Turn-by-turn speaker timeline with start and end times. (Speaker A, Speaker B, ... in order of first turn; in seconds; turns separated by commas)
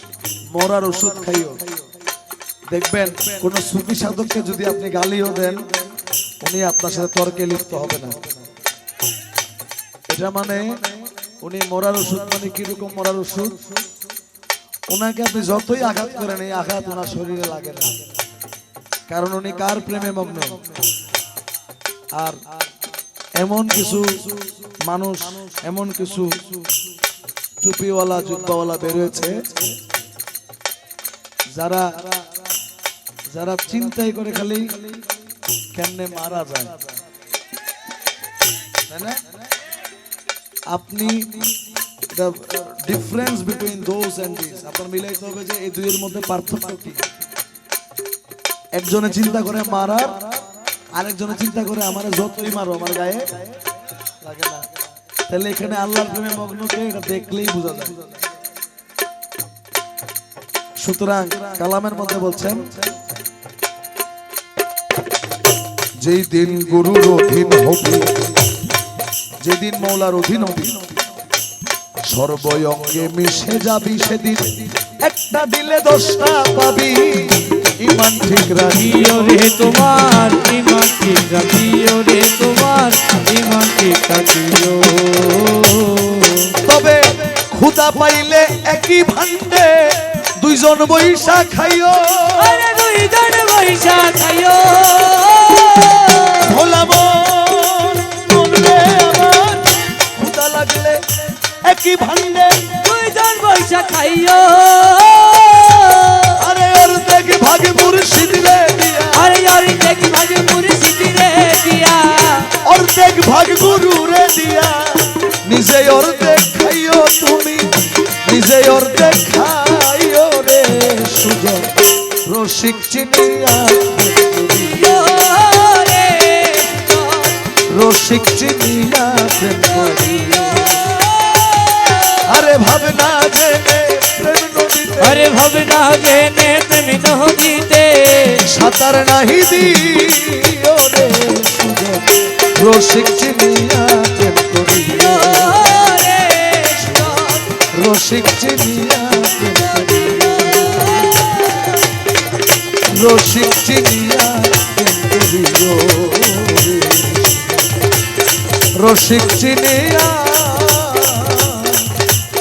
Speaker A: 0.5-1.6, Speaker A: 2.7-5.7, Speaker A: 6.4-8.3, Speaker A: 10.1-10.9, Speaker A: 11.4-13.7, Speaker A: 14.9-18.0, Speaker A: 19.1-20.6, Speaker A: 22.2-22.4, Speaker A: 23.4-26.6, Speaker A: 27.6-29.7, Speaker A: 31.5-32.2, Speaker A: 33.3-34.8, Speaker A: 35.7-36.8, Speaker A: 38.9-39.2, Speaker A: 40.7-41.5, Speaker A: 42.1-47.1, Speaker A: 48.7-50.2, Speaker A: 50.9-53.3, Speaker A: 54.2-54.7, Speaker A: 55.3-58.0, Speaker A: 60.8-62.9, Speaker A: 66.0-68.3, Speaker A: 69.4-70.8, Speaker A: 72.0-79.3, Speaker B: 78.7-86.6, Speaker A: 86.6-92.6, Speaker B: 92.4-96.5, Speaker A: 96.4-102.8, Speaker B: 102.8-106.4, Speaker A: 106.4-109.3, Speaker B: 109.1-112.6, Speaker A: 112.6-121.7, Speaker A: 122.2-124.8, Speaker B: 124.6-127.5, Speaker A: 127.7-130.9, Speaker B: 129.9-132.2, Speaker A: 132.2-135.3, Speaker B: 135.0-138.4, Speaker A: 138.4-146.0, Speaker B: 145.0-147.5, Speaker A: 146.8-151.3, Speaker B: 151.0-151.6, Speaker A: 152.9-157.6, Speaker A: 158.8-161.9